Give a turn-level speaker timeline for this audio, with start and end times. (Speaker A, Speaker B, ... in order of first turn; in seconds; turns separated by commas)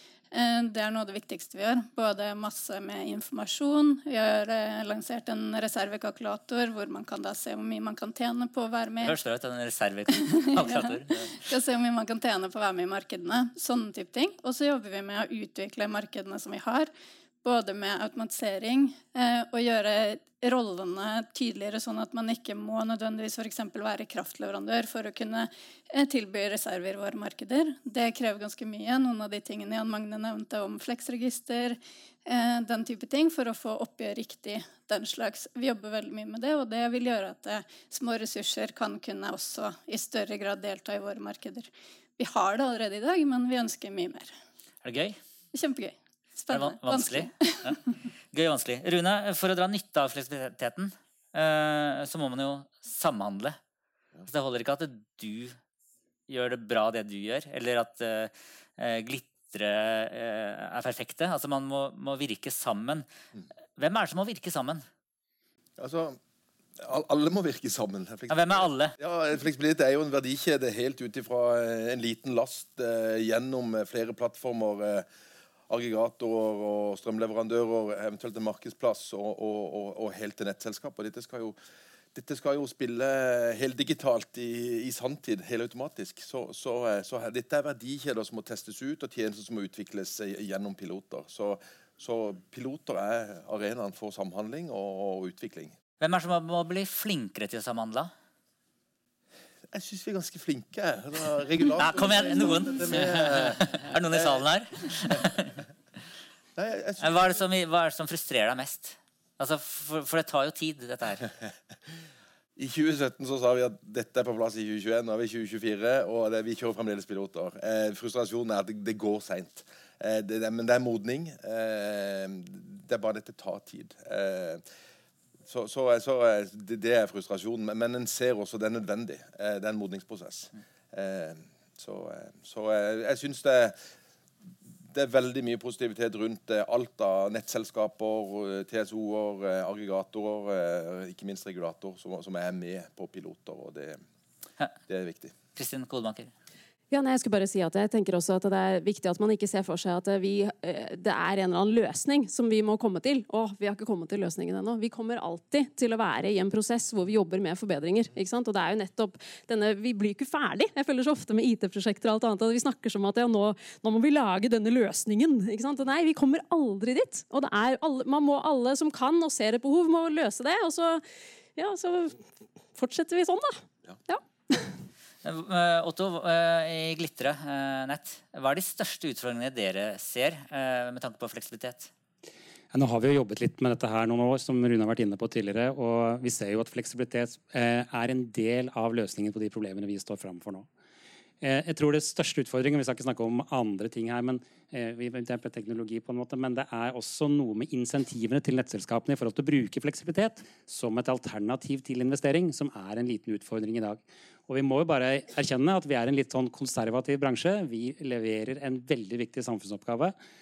Speaker A: 0.3-9.2, Speaker B: 9.0-11.4, Speaker A: 10.2-16.9, Speaker A: 17.4-44.3, Speaker B: 44.8-45.2, Speaker A: 45.5-47.7, Speaker B: 46.5-47.8, Speaker B: 48.3-53.6, Speaker B: 54.2-55.5, Speaker B: 56.3-63.1, Speaker B: 63.8-64.8, Speaker C: 65.8-66.2, Speaker C: 66.8-75.0, Speaker B: 68.3-68.9, Speaker C: 75.7-81.5, Speaker C: 82.1-95.7, Speaker B: 96.0-98.1, Speaker C: 99.7-104.4, Speaker B: 101.8-105.5, Speaker C: 106.5-107.4, Speaker B: 107.0-111.3, Speaker C: 112.5-124.6, Speaker C: 125.5-133.7, Speaker C: 134.9-144.0, Speaker C: 144.9-145.3, Speaker B: 145.5-146.3, Speaker D: 146.9-171.0, Speaker D: 171.6-172.2, Speaker D: 172.7-173.5, Speaker D: 174.1-174.7, Speaker B: 175.2-181.9, Speaker E: 182.7-190.7, Speaker E: 191.4-210.1